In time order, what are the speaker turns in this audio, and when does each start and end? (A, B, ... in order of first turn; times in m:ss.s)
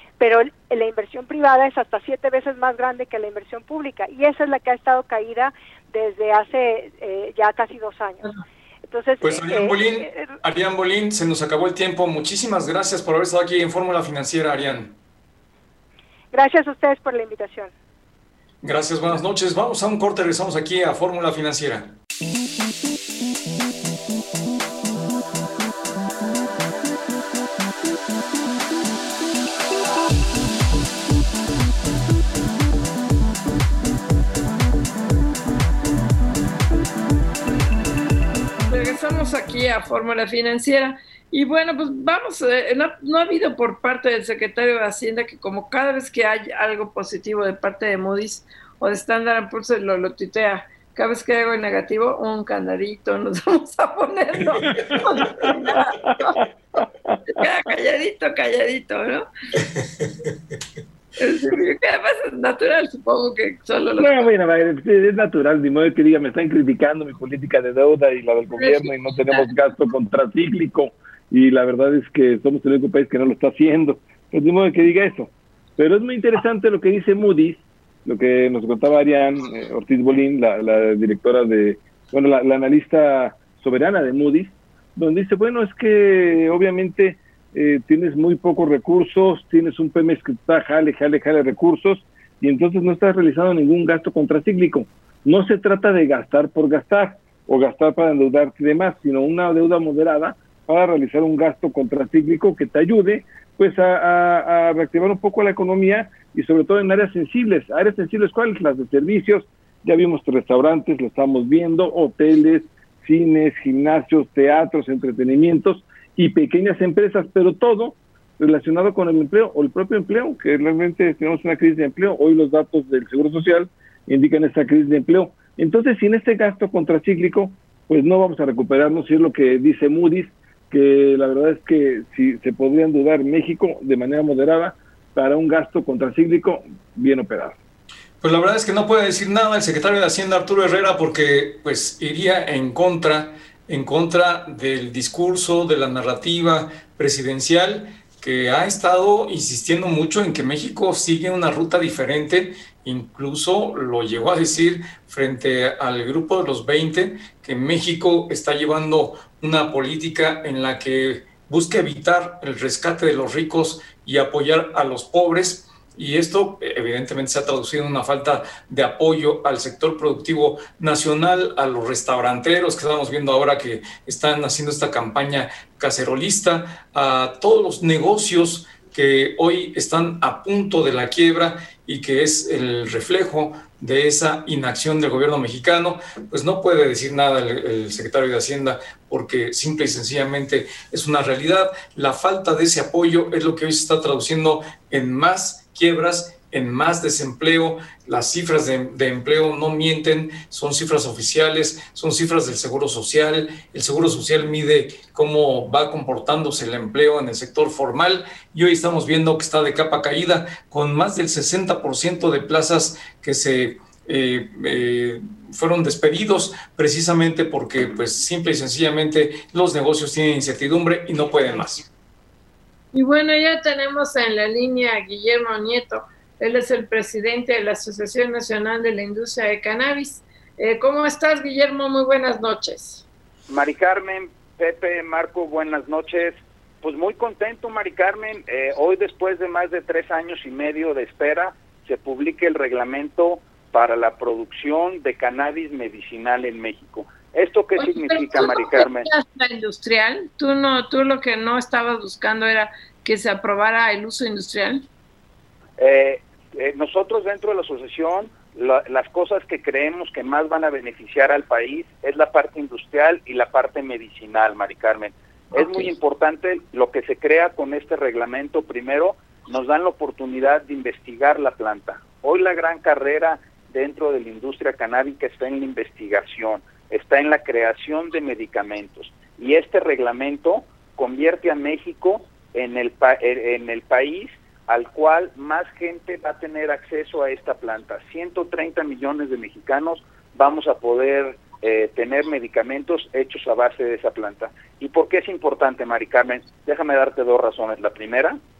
0:00.2-0:08.2 A
0:08.9-0:10.3 A
0:09.2-0:15.0 B
0:16.3-0:17.7 A
0:18.6-0:22.0 B
0:38.7-0:56.4 C
0:55.4-0:57.4 D
0:57.3-0:59.3 C
1:01.2-1:04.2 C
1:04.0-2:17.6 D
1:08.6-1:09.4 C
2:18.2-3:41.8 B
3:42.9-3:53.0 C
3:53.5-4:09.1 E
4:07.8-4:14.8 C
4:15.8-4:58.4 E
4:25.6-4:25.9 C